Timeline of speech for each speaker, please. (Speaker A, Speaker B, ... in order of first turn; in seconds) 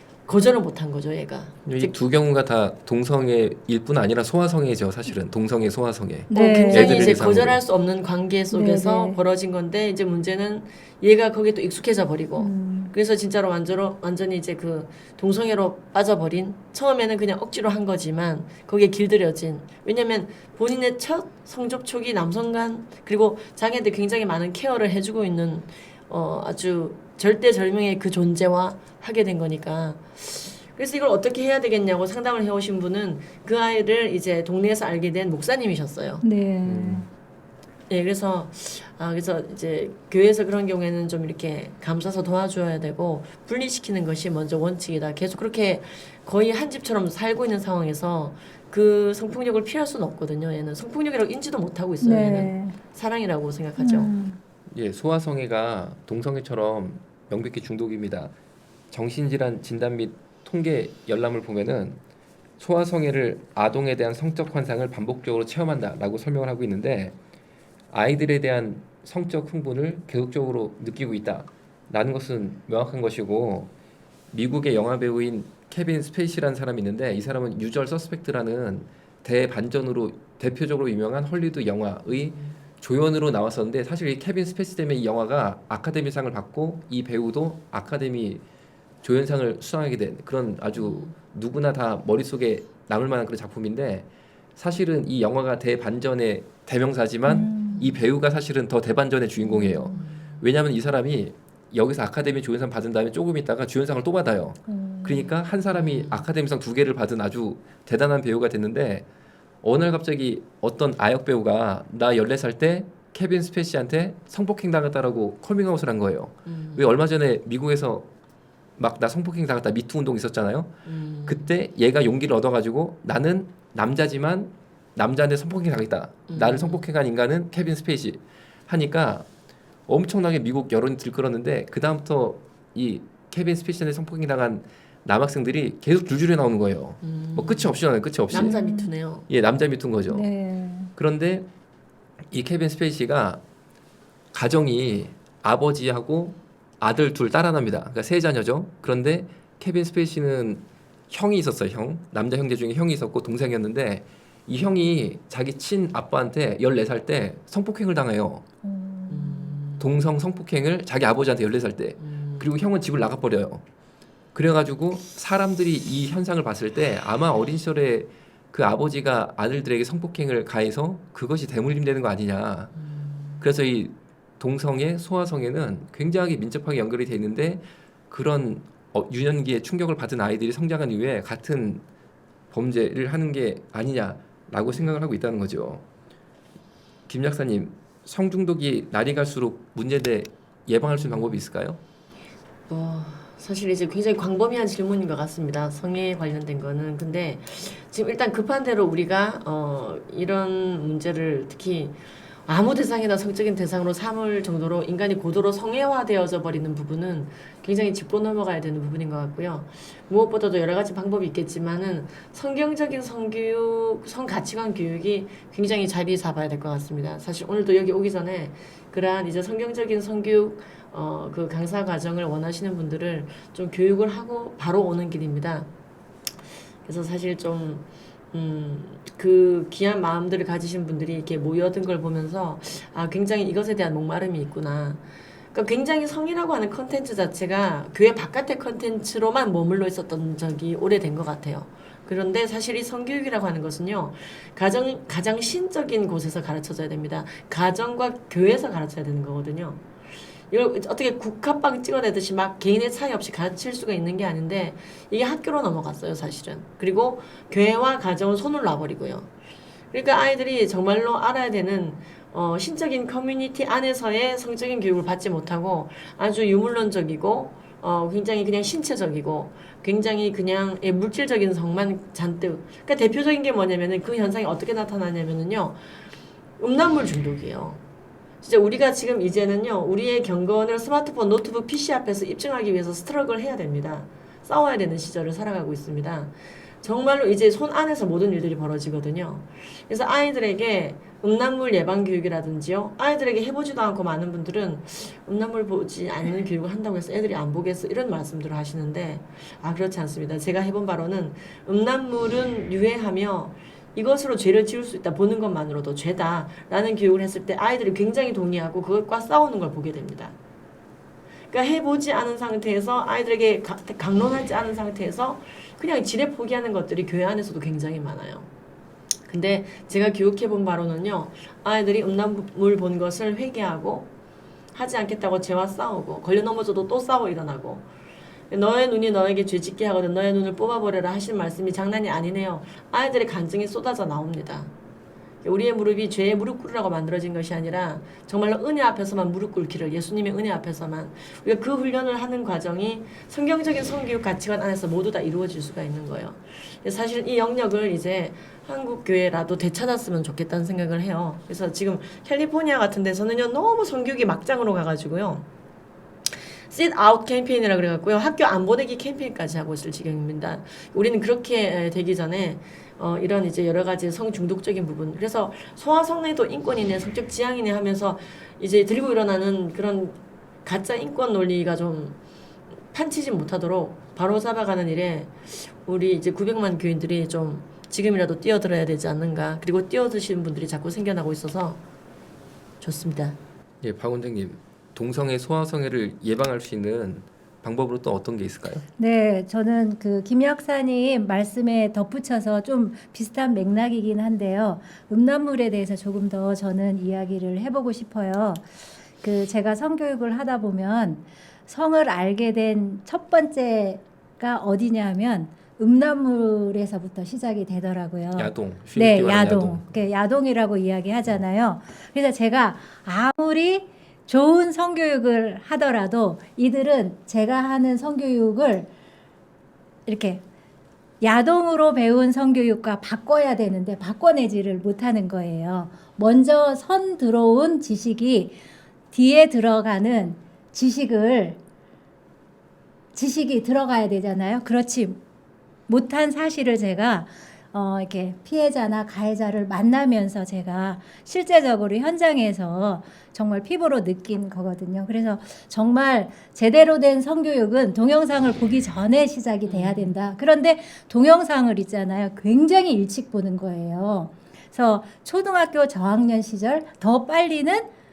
Speaker A: 0.3-1.9, 6.3-36.2, 37.9-54.1, 82.1-82.5, 90.7-91.1, 99.9-100.3, 105.7-106.3, 116.5-116.9, 120.8-121.5, 126.3-126.9, 137.0-139.2, 159.1-159.9, 162.0-162.5, 172.8-173.4, 191.0-191.4, 192.7-225.7, 226.8-235.0, 235.5-249.8, 250.5-259.3, 259.9-275.8, 276.6-277.8, 278.4-310.4, 311.5-318.5, 319.3-324.1, 324.7-327.9, 328.5-334.7, 335.4-355.5, 356.3-372.2, 372.9-381.8, 382.8-383.4, 449.6-450.1
Speaker B: 1.6-7.6, 36.6-37.0, 54.7-58.3, 58.9-62.0, 62.6-67.2, 67.9-73.7, 74.3-88.4, 89.0-109.0, 109.6-118.1, 118.8-129.3, 129.9-138.6, 139.3-140.3, 140.9-141.4, 142.3-143.4, 144.3-158.4, 159.8-163.6, 164.3-172.7, 173.4-181.8, 182.5-185.8, 187.1-191.8, 383.8-388.9, 408.4-410.0
Speaker C: 6.3-7.1, 8.5-9.2, 12.3-12.9, 36.2-37.1, 52.0-52.8, 53.8-54.4, 97.2-97.9, 99.4-100.0, 104.7-105.4, 138.3-138.9, 140.1-140.9, 158.6-159.6, 389.0-418.9, 420.1-420.4, 421.2-428.6, 429.1-431.6, 433.1-435.2, 435.9-457.9